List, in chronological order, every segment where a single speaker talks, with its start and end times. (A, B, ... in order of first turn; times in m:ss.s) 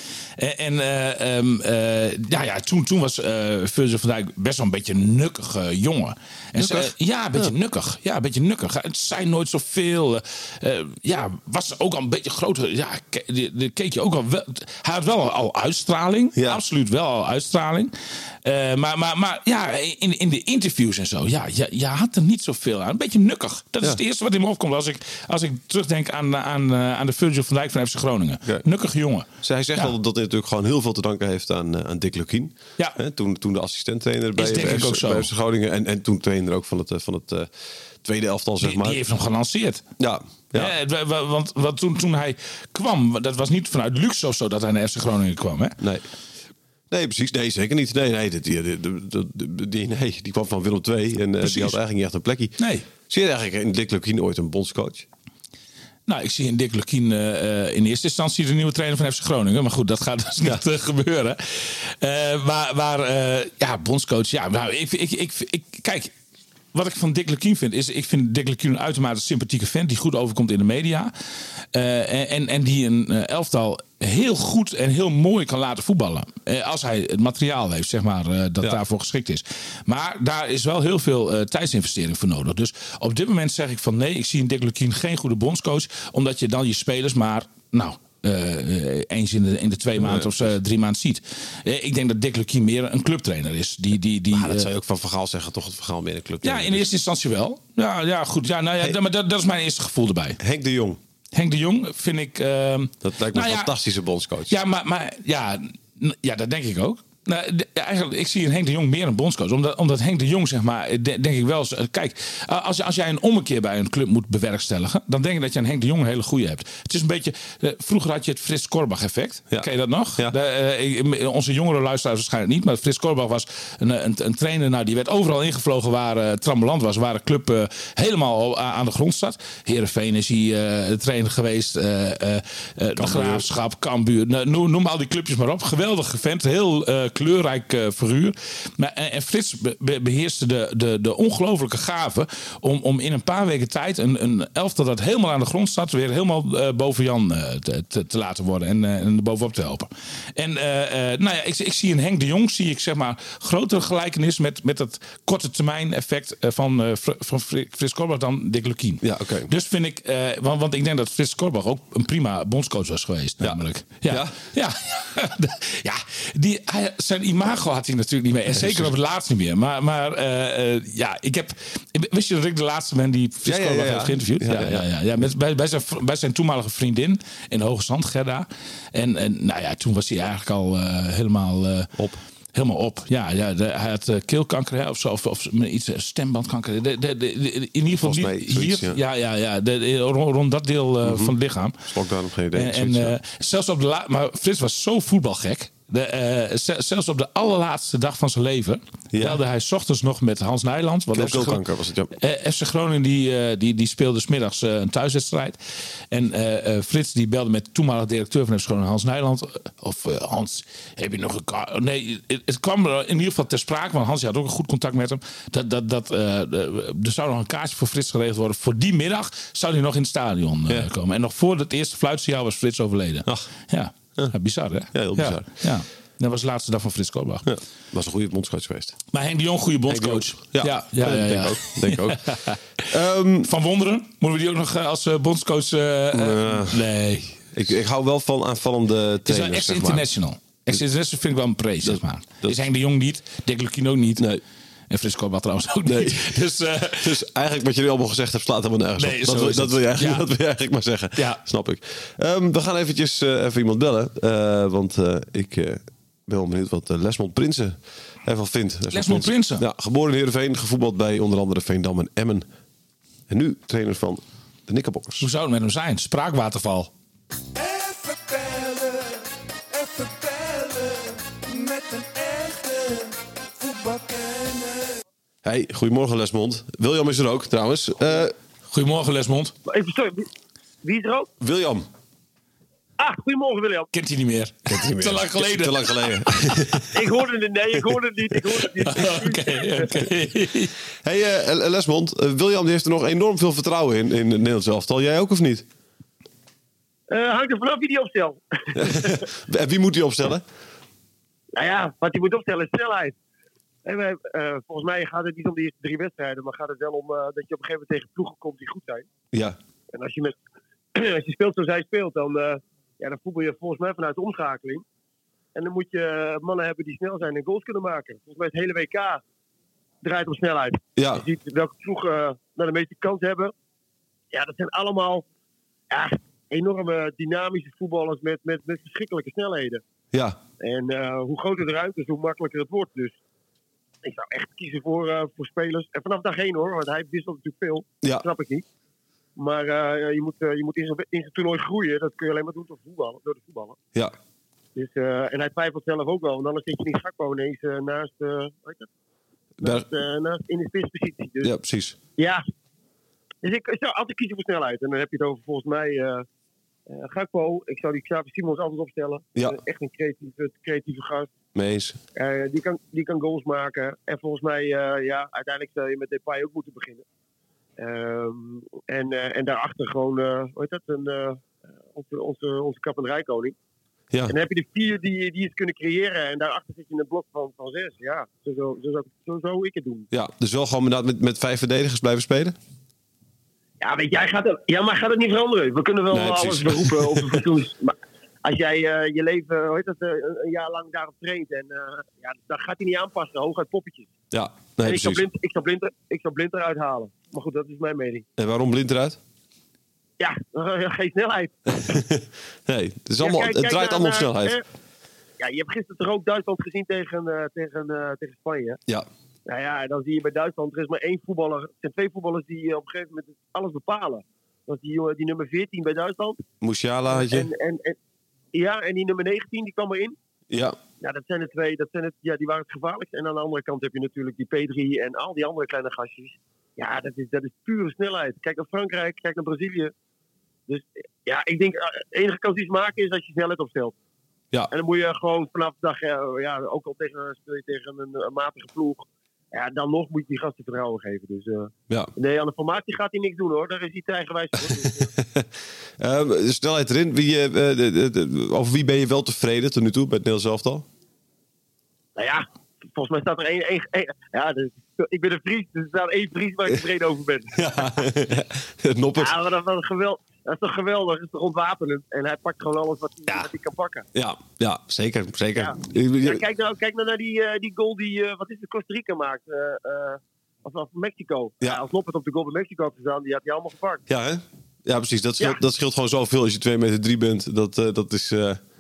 0:00.4-0:29.9 A
0:06.6-0:07.5 B
0:16.4-0:16.6 B
0:29.4-0:37.5 B
0:34.4-0:35.3 A
0:38.0-0:39.0 B
0:38.6-0:39.8 A
0:40.0-0:40.7 B
0:40.5-0:45.8 A
0:46.9-0:52.6 B
0:51.4-0:51.8 A
0:52.6-0:52.9 A
0:53.1-0:55.1 B
0:56.1-1:06.1 A
1:06.7-1:11.1 A
1:11.7-1:34.7 A
1:30.0-1:30.5 B
1:34.3-1:36.9 B
1:36.4-1:40.4 A
1:40.4-1:41.0 B
1:41.3-1:43.7 A
1:43.0-1:44.6 B
1:44.5-3:01.9 A
1:59.5-2:00.4 B
2:13.0-2:13.5 B
2:39.0-2:39.5 B
2:43.4-2:44.4 B
2:48.5-2:48.9 B
2:53.4-2:54.8 B
3:02.6-3:11.8 A
3:08.0-3:09.0 B
3:11.0-3:11.3 B
3:11.9-3:13.2 B
3:12.5-3:21.6 A
3:19.1-3:19.4 B
3:21.1-3:22.1 B
3:22.2-3:25.6 A
3:26.1-3:47.5 A
3:44.9-3:45.5 B
3:47.4-3:49.0 B
3:49.1-3:52.6 A
3:49.9-3:53.5 B
3:53.4-3:57.4 A
3:56.1-3:56.8 B
3:57.5-4:00.1 B
3:59.3-4:04.3 A
4:01.8-4:02.6 B
4:04.9-4:07.2 A
4:05.9-4:06.4 B
4:07.0-4:22.5 B
4:09.0-4:10.3 A
4:11.2-4:11.4 A
4:18.9-4:19.6 A
4:23.3-4:25.3 B
4:25.2-4:26.9 A
4:27.6-4:35.0 C
4:35.4-4:38.3 B
4:38.7-4:39.6 A
4:39.7-4:40.3 D
4:40.8-4:41.3 D
4:41.4-4:41.9 B
4:43.0-4:43.9 D
4:43.9-4:46.8 A
4:44.7-4:47.0 B
4:46.9-4:49.9 D
4:48.8-4:50.8 A
4:51.0-4:55.7 B
4:57.1-4:59.2 D
4:58.8-5:00.4 B
5:01.6-5:03.2 D
5:03.8-5:09.1 D
5:09.3-5:09.6 B
5:09.9-5:10.4 D
5:10.9-5:14.8 D
5:15.6-5:19.2 D
5:20.0-5:23.5 D
5:21.0-5:21.2 B
5:24.3-5:25.2 D
5:25.9-5:29.8 D
5:30.1-5:30.4 B
5:30.6-5:33.2 D
5:34.0-5:38.6 D
5:39.4-5:43.8 D
5:44.8-5:48.9 D
5:49.6-5:49.9 B
5:49.6-5:51.5 D
5:51.4-5:52.0 B
5:52.2-5:52.4 D
5:53.4-5:56.3 D
5:56.9-6:01.3 D
6:01.6-6:02.0 B
6:02.2-6:07.0 D
6:07.8-6:13.6 D
6:14.3-6:20.1 D
6:20.1-6:22.6 B
6:23.8-6:34.1 D
6:26.1-6:27.4 B
6:34.3-6:35.2 B
6:34.8-6:38.3 D
6:38.4-6:39.2 B
6:40.2-6:42.0 D
6:41.7-6:44.6 B
6:43.2-6:44.6 D
6:45.4-6:48.8 D
6:49.5-6:56.4 D
6:56.6-6:57.5 B
6:57.1-6:58.0 D
6:58.5-7:00.2 D
7:00.5-7:00.8 B
7:01.0-7:09.9 D
7:10.7-7:14.0 D
7:14.7-7:25.1 D
7:24.7-7:30.9 B
7:32.2-7:38.0 D
7:37.6-7:39.4 B
7:39.2-7:44.1 D
7:44.2-7:46.4 B
7:45.6-7:54.0 D
7:54.1-7:58.6 B